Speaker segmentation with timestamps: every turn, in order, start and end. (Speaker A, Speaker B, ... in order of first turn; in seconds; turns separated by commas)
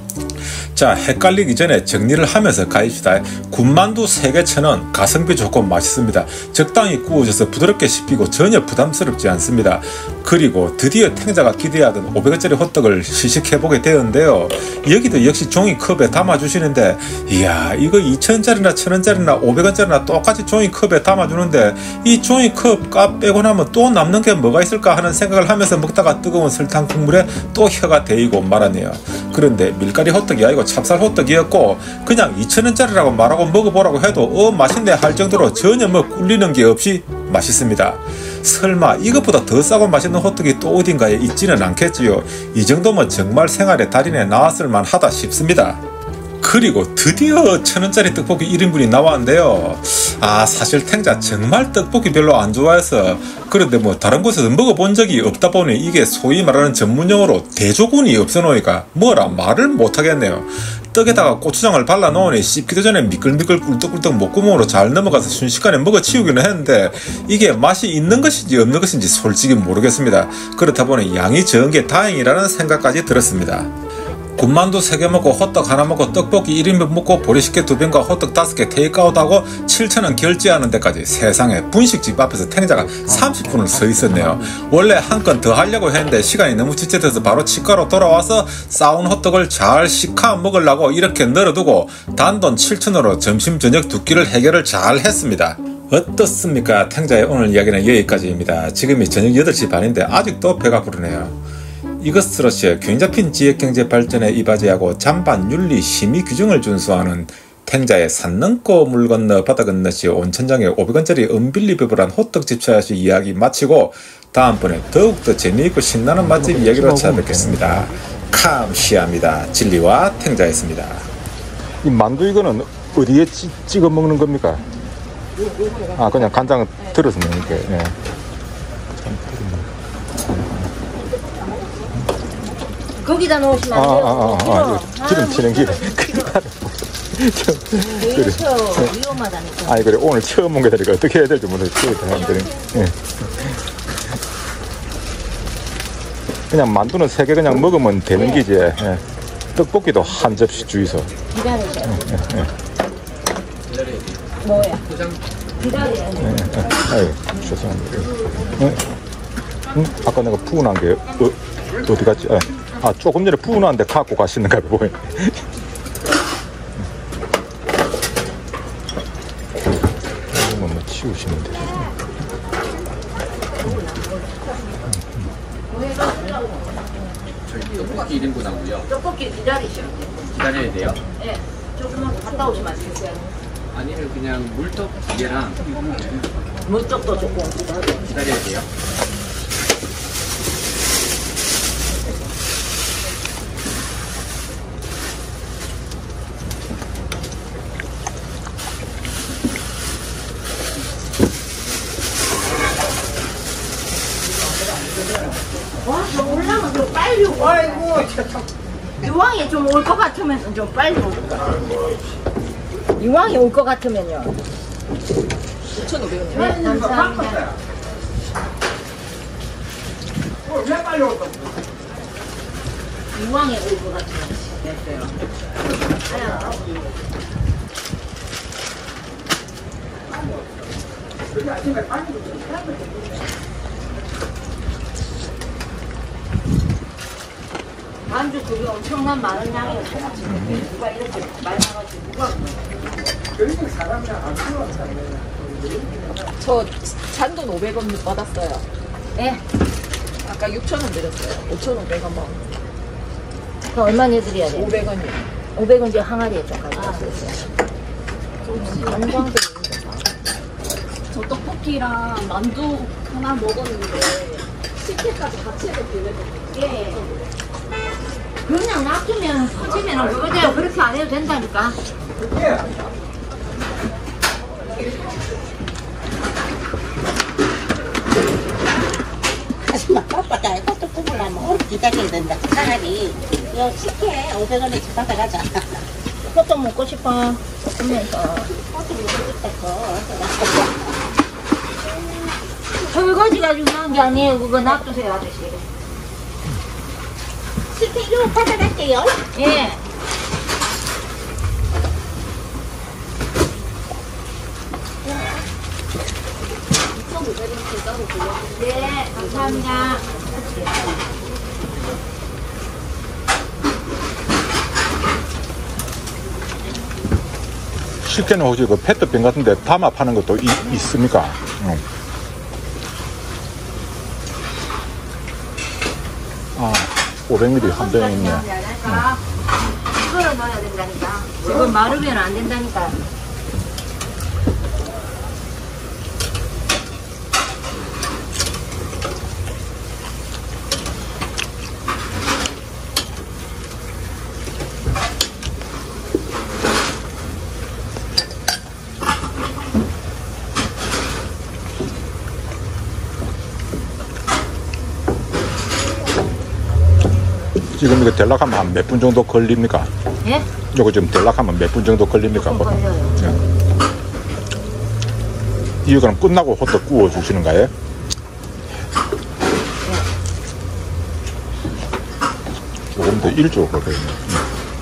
Speaker A: 0.7-45.8, Speaker A: 46.4-73.7, Speaker A: 74.4-101.4, Speaker B: 82.8-84.6, Speaker A: 102.0-121.1, Speaker B: 116.2-118.0, Speaker B: 121.8-124.6, Speaker C: 125.5-126.2, Speaker B: 125.9-128.0, Speaker B: 129.1-129.7, Speaker B: 130.3-130.7, Speaker D: 133.0-136.3, Speaker B: 133.7-139.0, Speaker D: 137.9-139.9, Speaker B: 139.7-143.6, Speaker B: 146.5-149.0, Speaker D: 148.1-148.4, Speaker B: 149.6-151.1, Speaker D: 151.3-152.0, Speaker B: 151.9-152.5, Speaker E: 153.7-154.2, Speaker D: 154.4-154.8, Speaker E: 154.9-155.2, Speaker D: 155.6-156.7, Speaker B: 156.2-158.8, Speaker B: 159.7-165.4, Speaker B: 170.3-171.9, Speaker D: 173.7-174.2, Speaker D: 175.7-176.8, Speaker E: 177.5-178.9, Speaker D: 178.9-180.3, Speaker E: 180.3-181.0, Speaker D: 181.2-183.4, Speaker E: 183.7-185.9, Speaker D: 186.7-188.0, Speaker E: 188.1-188.7, Speaker D: 205.8-208.2, Speaker D: 209.0-211.7, Speaker D: 213.0-214.4, Speaker C: 215.7-216.4, Speaker D: 216.3-217.5, Speaker D: 223.1-225.1, Speaker D: 226.1-226.7, Speaker D: 238.1-242.7, Speaker B: 240.2-240.7, Speaker C: 246.4-248.7, Speaker D: 249.2-249.4, Speaker C: 250.2-252.4, Speaker D: 253.7-254.8, Speaker C: 254.7-255.3, Speaker D: 255.5-257.4, Speaker C: 258.5-259.0, Speaker D: 258.6-260.1, Speaker C: 261.1-266.4, Speaker D: 266.5-267.1, Speaker D: 268.5-271.8, Speaker F: 279.7-285.7, Speaker D: 286.3-288.5, Speaker F: 288.6-290.7, Speaker D: 292.9-295.6, Speaker F: 297.8-299.2, Speaker D: 299.4-299.8, Speaker C: 307.7-308.3, Speaker D: 308.6-310.8, Speaker B: 318.0-321.8, Speaker B: 326.6-329.1, Speaker D: 327.6-329.2, Speaker D: 329.9-333.0, Speaker B: 357.8-359.9, Speaker D: 360.2-360.5, Speaker B: 360.7-363.4, Speaker D: 362.3-363.2, Speaker B: 365.9-367.7, Speaker B: 372.9-374.4